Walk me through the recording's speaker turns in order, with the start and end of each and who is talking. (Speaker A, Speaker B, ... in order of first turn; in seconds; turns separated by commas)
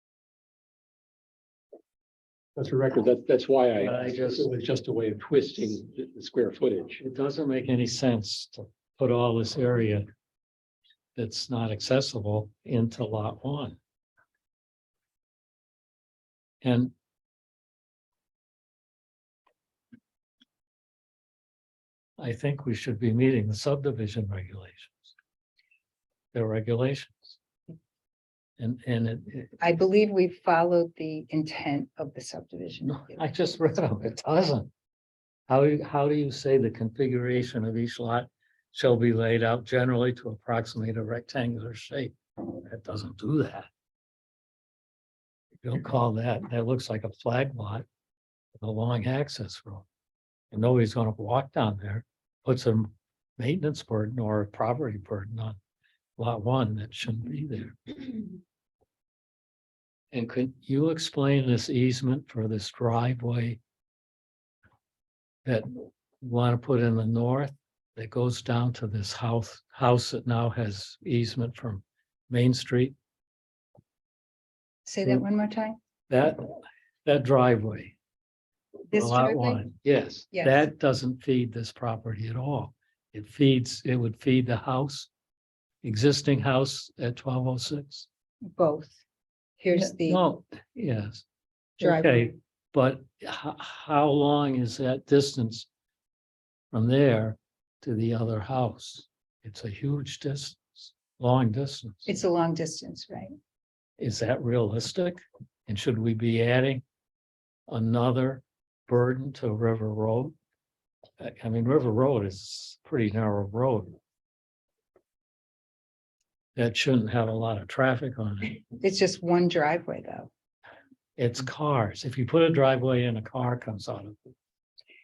Speaker A: 2.5-7.0, Speaker B: 3.8-4.5, Speaker B: 7.0-10.0, Speaker B: 11.2-13.8, Speaker B: 16.6-16.9, Speaker B: 22.2-25.1, Speaker B: 26.3-27.4, Speaker B: 28.6-29.6, Speaker C: 29.6-33.2, Speaker B: 32.9-34.7, Speaker B: 35.5-43.7, Speaker B: 45.6-47.9, Speaker B: 48.6-49.9, Speaker B: 50.5-55.6, Speaker B: 56.2-58.2, Speaker B: 60.1-63.6, Speaker B: 65.4-73.0, Speaker C: 74.8-75.8, Speaker B: 76.1-77.9, Speaker C: 78.9-79.7, Speaker B: 78.9-85.1, Speaker C: 80.3-80.6, Speaker B: 85.8-88.1, Speaker C: 88.5-89.0, Speaker C: 89.6-90.2, Speaker B: 89.7-91.2, Speaker B: 91.8-95.7, Speaker C: 91.8-92.3, Speaker B: 96.7-102.1, Speaker C: 102.0-103.3, Speaker B: 104.0-106.8, Speaker B: 107.7-110.3, Speaker B: 111.2-114.0, Speaker B: 116.5-118.6, Speaker C: 118.8-120.3, Speaker B: 121.2-124.3